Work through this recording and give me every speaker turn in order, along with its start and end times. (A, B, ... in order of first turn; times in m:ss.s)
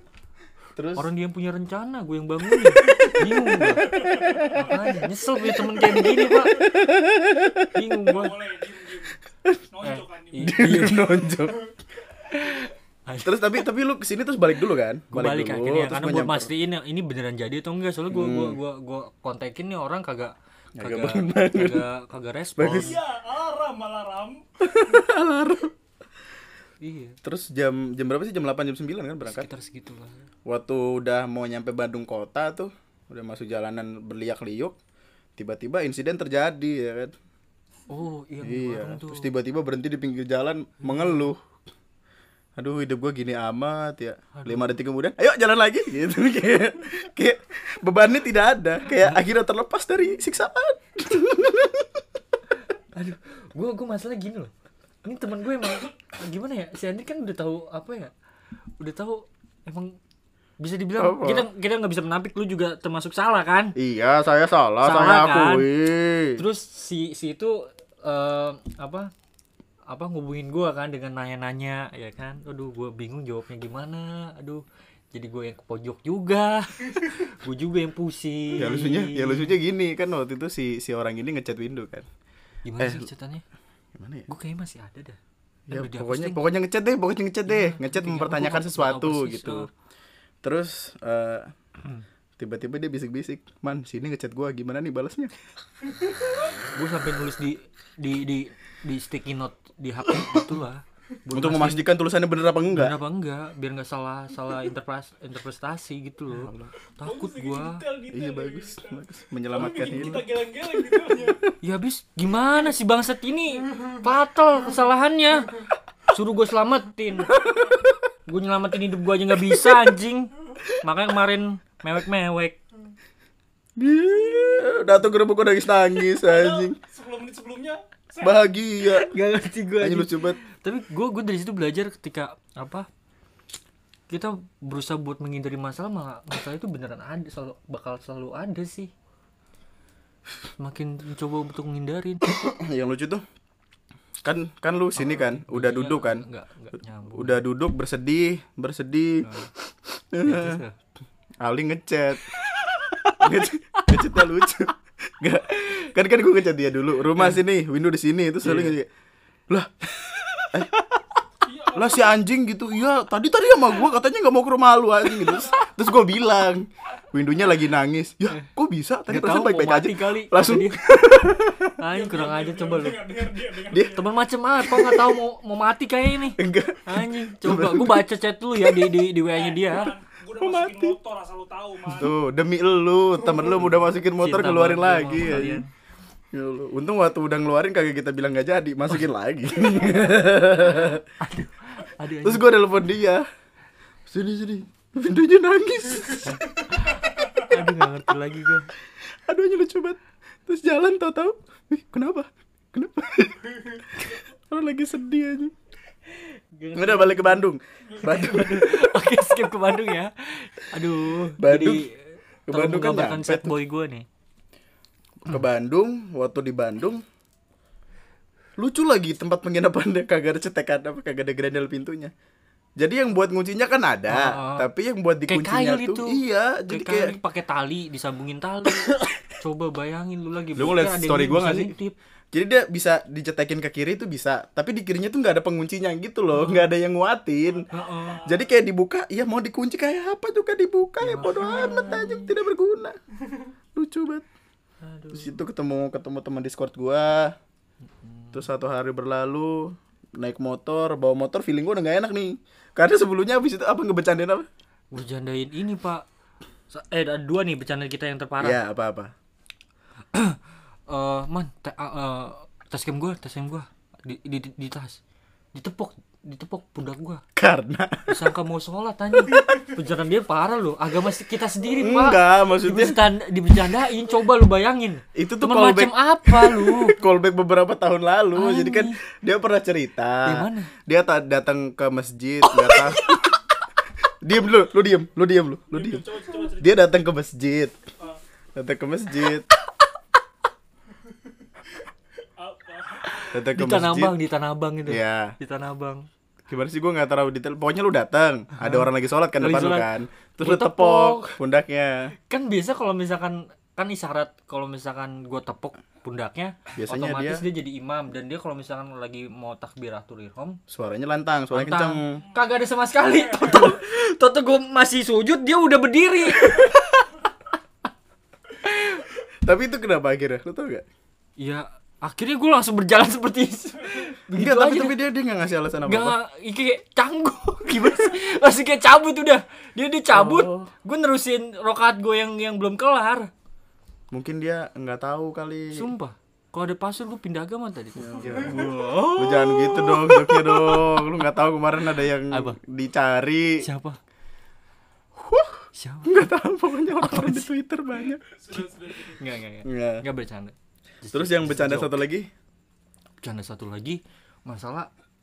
0:00.8-0:01.1 A
0:01.0-0:06.8 B
0:03.2-0:04.8 A
0:03.9-0:04.6 C
0:05.5-0:08.1 A
0:07.7-0:08.4 B
0:08.1-0:09.2 C
0:09.7-0:10.9 C
0:09.8-0:11.1 B
0:10.4-0:11.6 A
0:12.3-0:13.6 B
0:13.2-0:16.5 A
0:15.1-0:23.0 B
0:18.1-0:18.6 A
0:20.8-0:21.9 A
0:22.6-0:22.9 A
0:22.7-0:24.4 C
0:24.6-0:25.7 A
0:26.8-0:27.2 B
0:27.2-0:29.5 A
0:29.2-0:30.3 B
0:30.4-0:34.8 A
0:35.4-0:37.1 A
0:37.9-0:39.3 B
0:38.4-0:41.4 A
0:40.8-0:41.3 B
0:42.6-0:52.0 A
0:44.3-0:44.7 B
0:49.0-0:49.2 B
0:52.9-0:54.5 B
0:55.0-0:58.1 B
0:58.8-1:00.0 B
1:00.6-1:03.8 B
1:01.0-1:01.5 A
1:03.8-1:06.4 A
1:04.8-1:05.7 B
1:06.4-1:09.1 B
1:09.9-1:19.6 B
1:18.5-1:22.1 A
1:22.6-1:23.4 B
1:22.8-1:23.1 A
1:23.9-1:24.2 A
1:24.3-1:25.2 B
1:25.7-1:29.7 A
1:25.7-1:26.4 B
1:27.4-1:29.7 B
1:30.4-1:31.5 A
1:32.4-1:35.4 A
1:36.6-1:41.9 B
1:40.1-1:40.5 A
1:41.3-1:42.9 A
1:42.7-1:47.8 B
1:46.3-1:46.7 A
1:47.0-1:51.4 C
1:48.1-1:50.2 A
1:49.6-1:50.2 B
1:51.6-1:55.5 B
1:56.1-1:57.3 B
1:57.3-1:58.0 A
1:58.3-2:02.6 B
1:59.4-1:59.9 A
2:03.8-2:06.8 A
2:06.1-2:08.5 C
2:08.2-2:09.1 A
2:08.9-2:12.9 B
2:09.8-2:10.4 A
2:14.1-2:18.9 B
2:20.6-2:22.2 B
2:22.2-2:23.2 A
2:24.2-2:26.2 A
2:25.0-2:27.4 B
2:27.1-2:29.3 A
2:29.2-2:29.5 B
2:29.9-2:30.6 A
2:30.2-2:30.8 B
2:31.4-2:32.4 A
2:32.6-2:33.3 B
2:33.1-2:38.9 A
2:33.8-2:34.2 B
2:38.4-2:38.8 B
2:39.5-2:39.8 A
2:40.4-2:41.0 A
2:41.4-2:42.2 C
2:41.7-2:51.8 A
2:45.3-2:45.6 C
2:49.1-2:50.8 B
2:51.8-2:53.0 B
2:51.9-2:54.1 C
2:53.7-2:54.0 A
2:53.9-2:59.9 B
2:54.6-2:55.2 A
2:56.4-2:59.1 A
2:59.3-3:02.1 C
3:00.4-3:01.0 A
3:01.8-3:05.6 A
3:04.2-3:05.7 B
3:06.3-3:11.0 A
3:11.2-3:12.5 B
3:12.2-3:13.2 A
3:14.1-3:16.4 A
3:16.3-3:18.7 B
3:19.2-3:25.5 A
3:26.1-3:27.4 B
3:26.7-3:29.0 A
3:28.0-3:34.0 B
3:31.4-3:31.8 A
3:32.5-3:33.6 A
3:35.2-3:37.0 A
3:38.6-3:42.1 A
3:42.8-3:47.2 A
3:44.1-3:44.7 B
3:45.3-3:51.9 B
3:48.9-3:49.1 A
3:50.5-3:51.8 A
3:52.3-3:57.7 A
3:56.3-3:56.7 B
3:57.5-3:58.5 C
3:57.7-3:58.2 B
3:58.2-4:03.0 A
4:01.0-4:02.3 B
4:03.8-4:04.2 A
4:04.8-4:05.4 B
4:05.1-4:07.3 A
4:08.0-4:08.4 B
4:08.3-4:14.4 A
4:14.9-4:16.0 B
4:16.7-4:18.6 B
4:18.4-4:19.1 A
4:20.1-4:25.0 B
4:25.5-4:27.2 B
4:27.4-4:28.3 A
4:28.1-4:37.0 B
4:31.8-4:33.0 A
4:35.1-4:43.3 A
4:38.3-4:39.0 B
4:40.2-4:40.7 B
4:42.4-4:43.4 B
4:44.2-4:47.8 A
4:45.7-4:46.8 C
4:48.6-4:49.5 A
4:52.4-4:53.3 C
4:53.2-4:54.1 A
4:53.5-4:56.0 B
4:54.8-4:55.3 A
4:56.5-5:02.1 A
4:58.6-5:01.4 B
5:02.3-5:10.6 B
5:06.8-5:07.4 A
5:10.7-5:12.2 A
5:11.5-5:17.3 B
5:18.6-5:19.1 B
5:19.4-5:20.8 A
5:21.4-5:25.0 B
5:24.3-5:26.2 A
5:25.8-5:33.3 B
5:30.1-5:30.7 A
5:34.1-5:35.8 A
5:35.7-5:41.0 B
5:38.0-5:43.6 A
5:38.2-5:38.7 C
5:42.3-5:42.6 B
5:43.6-5:44.0 B
5:45.2-5:48.2 A
5:45.7-5:46.3 B
5:47.0-5:47.5 B
5:48.0-5:49.2 C
5:48.5-5:52.0 B
5:49.6-5:50.0 A
5:51.1-5:52.3 A
5:53.2-5:54.9 B